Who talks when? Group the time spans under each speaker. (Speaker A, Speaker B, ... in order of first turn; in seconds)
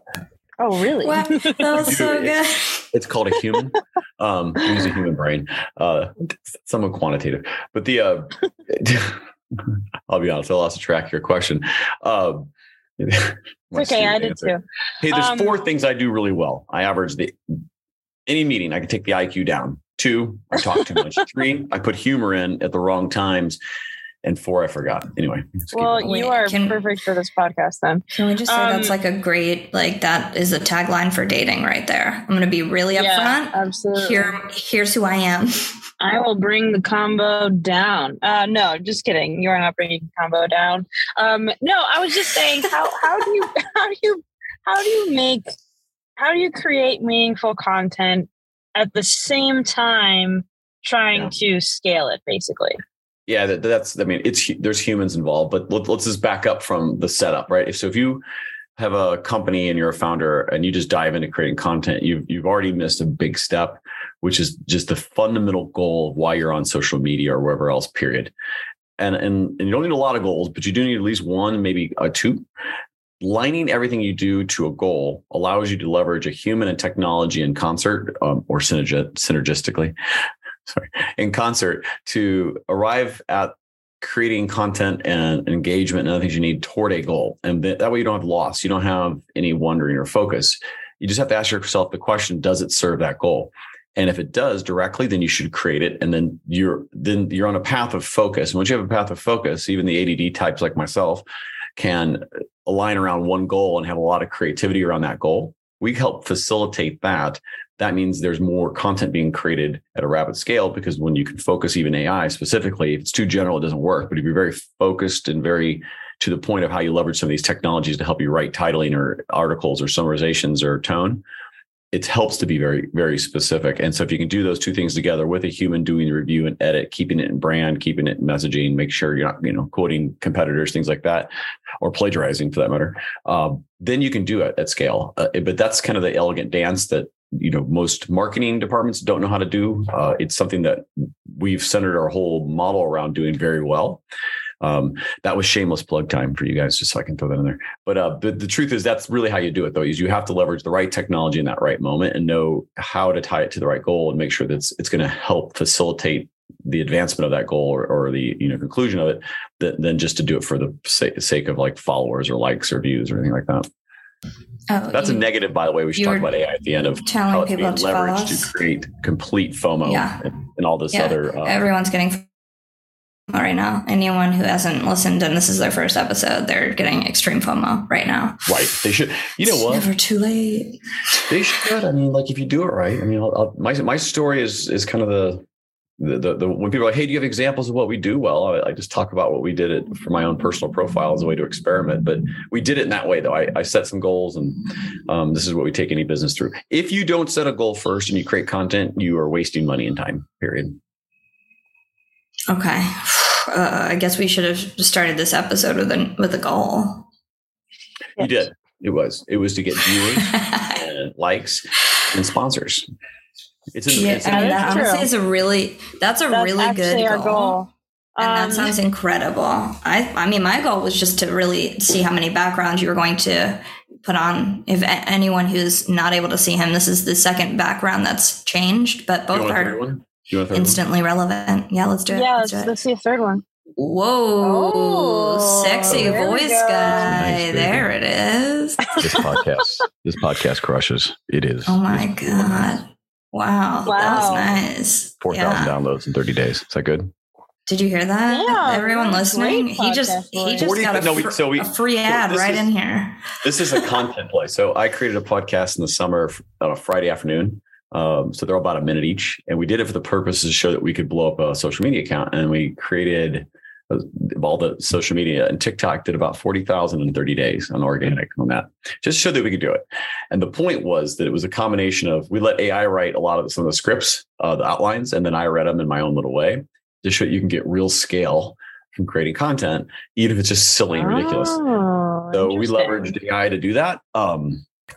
Speaker A: 0.6-1.9, 13.7-15.6, 25.7-29.0, 32.9-34.3, 36.0-45.4, 46.2-52.8, 214.2-215.1, 216.3-218.8, 232.1-233.4, 234.4-237.1, 243.8-244.6, 248.3-251.0, 280.9-283.1
Speaker B: 1.0-2.9, 26.0-26.8, 28.1-35.6, 164.7-165.2, 165.9-166.3, 167.0-168.5, 169.8-170.2, 170.9-172.3, 173.3-178.5, 179.5-181.2, 202.5-207.1, 210.2-210.8, 213.9-217.6, 218.2-229.8, 230.5-232.7, 233.8-239.1, 241.7-245.7, 247.7-253.8
Speaker C: 1.8-2.4, 2.9-12.4, 13.0-17.4, 18.3-23.6, 24.2-26.1, 53.3-58.2, 58.8-68.3, 69.0-72.4, 73.2-79.9, 80.7-101.2, 101.8-121.2, 121.9-144.0, 144.6-163.7, 164.9-171.6, 178.5-179.9, 181.3-185.4, 186.0-200.8, 208.2-212.8, 213.7-214.8, 229.3-230.8, 235.9-236.2, 236.9-237.9, 239.0-242.7, 245.2-247.1, 250.6-252.7, 253.4-281.6, 282.3-284.6